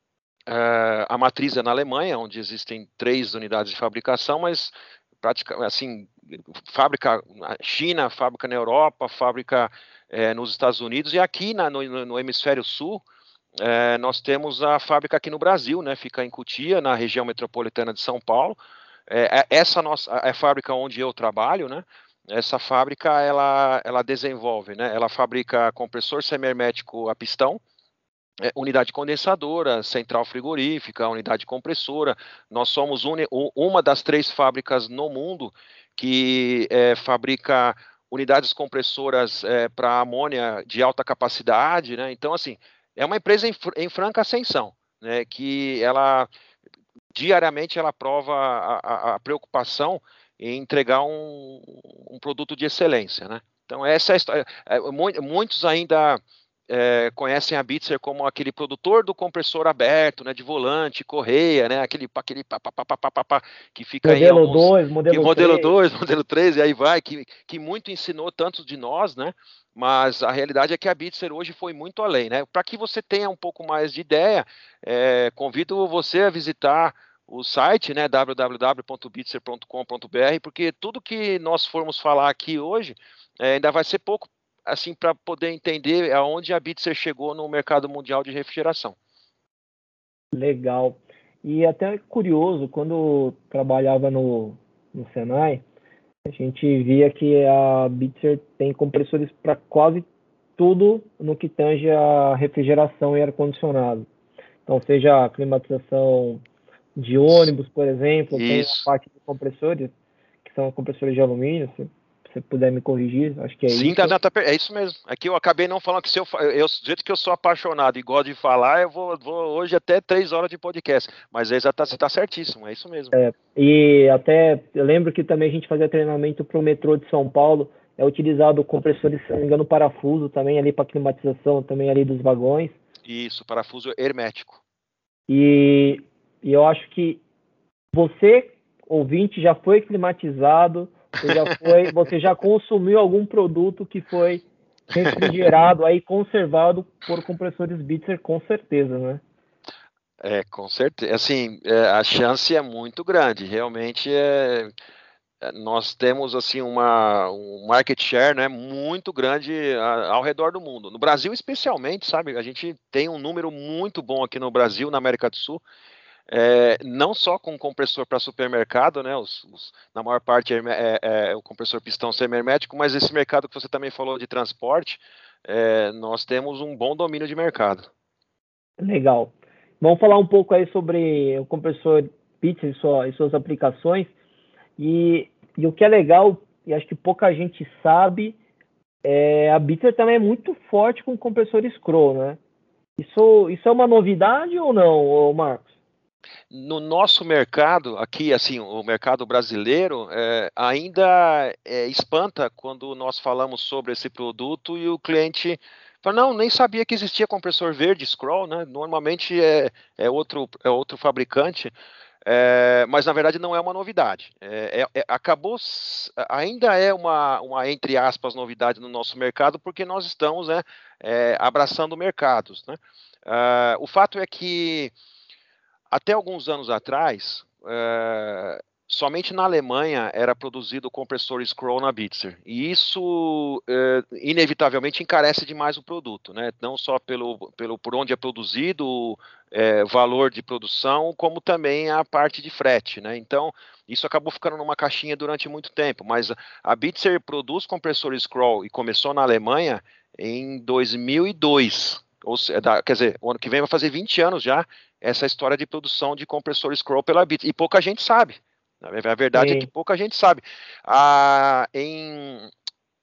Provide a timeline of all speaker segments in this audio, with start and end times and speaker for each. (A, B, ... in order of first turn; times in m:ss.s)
0:00.5-0:13.0 A
0:13.6-0:18.6 A
0:19.1-0:27.6 A
0:28.4-0:46.3 A
0:47.1-1:29.0 A
1:04.0-1:05.7 B
1:30.3-1:35.6 B
1:36.2-1:40.1 B
1:40.6-1:44.1 B
1:44.7-1:46.4 B
1:47.0-1:49.9 B
1:48.3-1:48.8 A
1:50.4-1:54.1 B
1:53.7-2:03.2 A
2:03.1-2:12.8 B
2:13.0-2:14.6 A
2:15.3-2:17.2 B
2:17.9-2:29.2 B
2:30.2-2:34.7 A
2:35.4-2:45.6 A
2:46.3-2:57.9 A
2:58.8-3:04.1 B
3:04.8-3:08.4 B
3:09.0-3:12.4 B
3:13.0-3:15.7 B
3:16.5-3:31.7 A
3:32.2-3:44.9 A
3:45.9-4:22.5 A
4:19.3-4:19.7 B